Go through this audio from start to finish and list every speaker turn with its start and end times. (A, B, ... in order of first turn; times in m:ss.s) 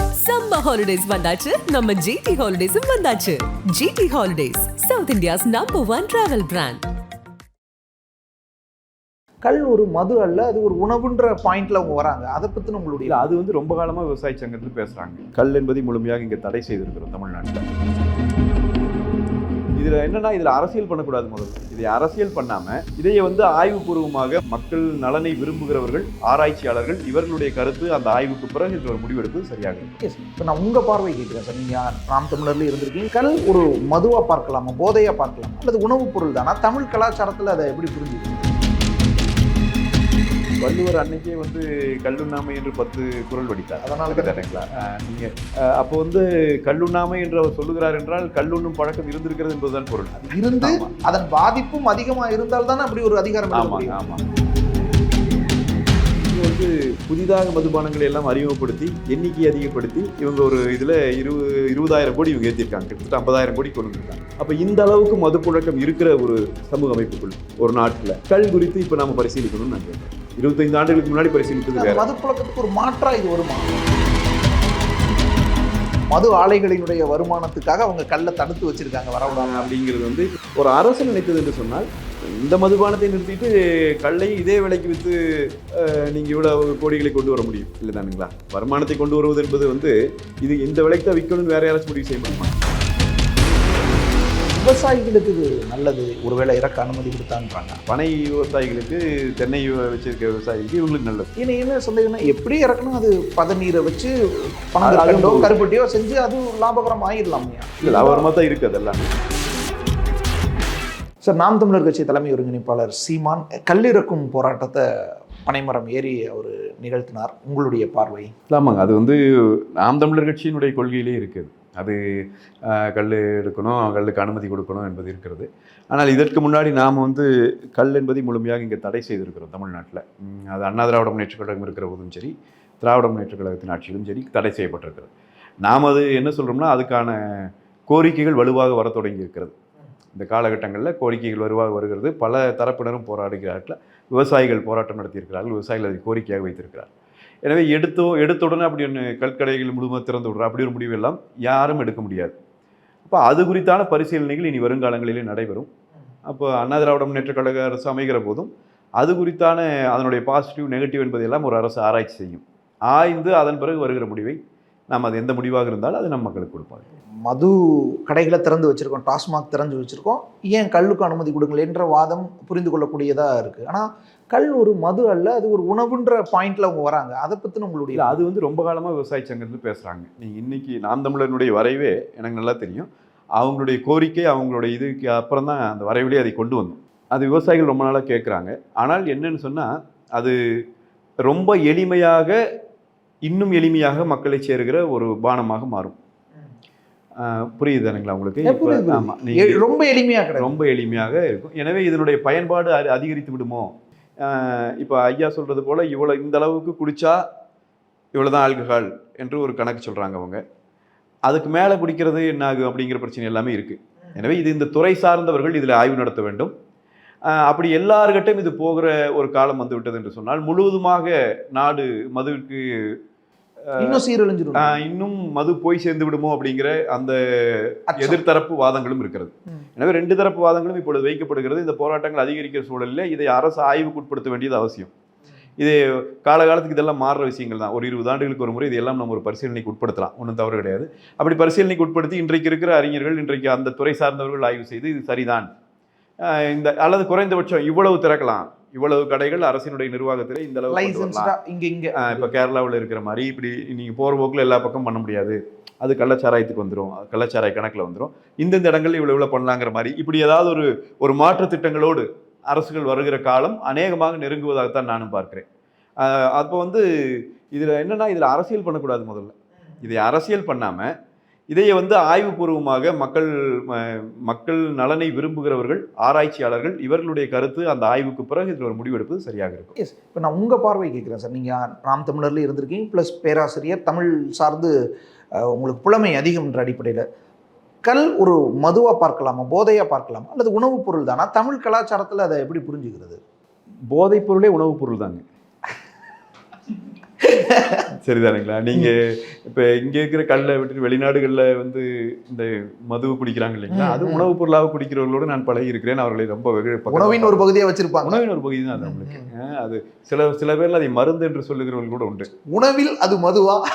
0:00.2-0:06.8 A
0:09.4-0:13.2 B
0:13.1-0:17.6 C
0:19.8-0:29.9 C
0:30.0-0:38.5 B
0:40.6-0:50.9 C
0:43.8-0:44.5 B
0:50.2-0:53.9 B
0:53.5-0:54.2 C
0:56.3-1:12.0 C
1:11.8-1:13.8 B
1:16.1-1:19.7 B
1:19.3-1:32.5 C
1:34.5-1:37.8 B
1:37.9-1:41.3 C
1:41.4-1:44.1 B
1:44.7-1:48.3 B
1:44.8-1:45.5 C
1:47.8-1:49.1 C
1:51.2-1:54.8 B
1:55.4-1:58.3 B
1:58.5-2:15.1 C
2:15.6-2:19.5 C
2:20.1-2:26.9 C
2:27.4-2:32.3 C
2:33.0-2:35.7 C
2:36.3-2:44.4 C
2:44.9-2:46.8 C
2:47.2-2:58.2 B
2:57.9-3:10.4 C
3:11.2-3:12.4 C
3:13.2-3:16.0 C
3:17.2-3:19.6 C
3:18.4-3:20.6 B
3:20.4-3:23.7 C
3:24.2-3:27.2 C
3:28.2-3:30.4 C
3:31.3-3:36.5 C
3:37.3-3:42.9 C
3:43.7-3:44.0 C
3:43.8-3:44.8 B
3:44.6-3:54.9 C
3:47.9-3:48.2 B
3:55.6-4:05.5 C
4:06.3-4:11.3 C
4:10.7-4:12.3 B
4:12.0-4:25.4 C
4:26.0-4:30.9 C
4:31.5-4:39.7 C
4:39.8-4:44.7 B
4:45.4-4:47.0 B
4:47.8-4:53.2 B
4:53.9-4:55.2 C
4:57.2-4:57.8 B
4:58.0-5:07.4 C
5:03.7-5:04.3 B
5:06.9-5:08.2 B
5:08.0-5:12.3 C
5:08.8-5:09.2 B
5:12.5-5:13.6 B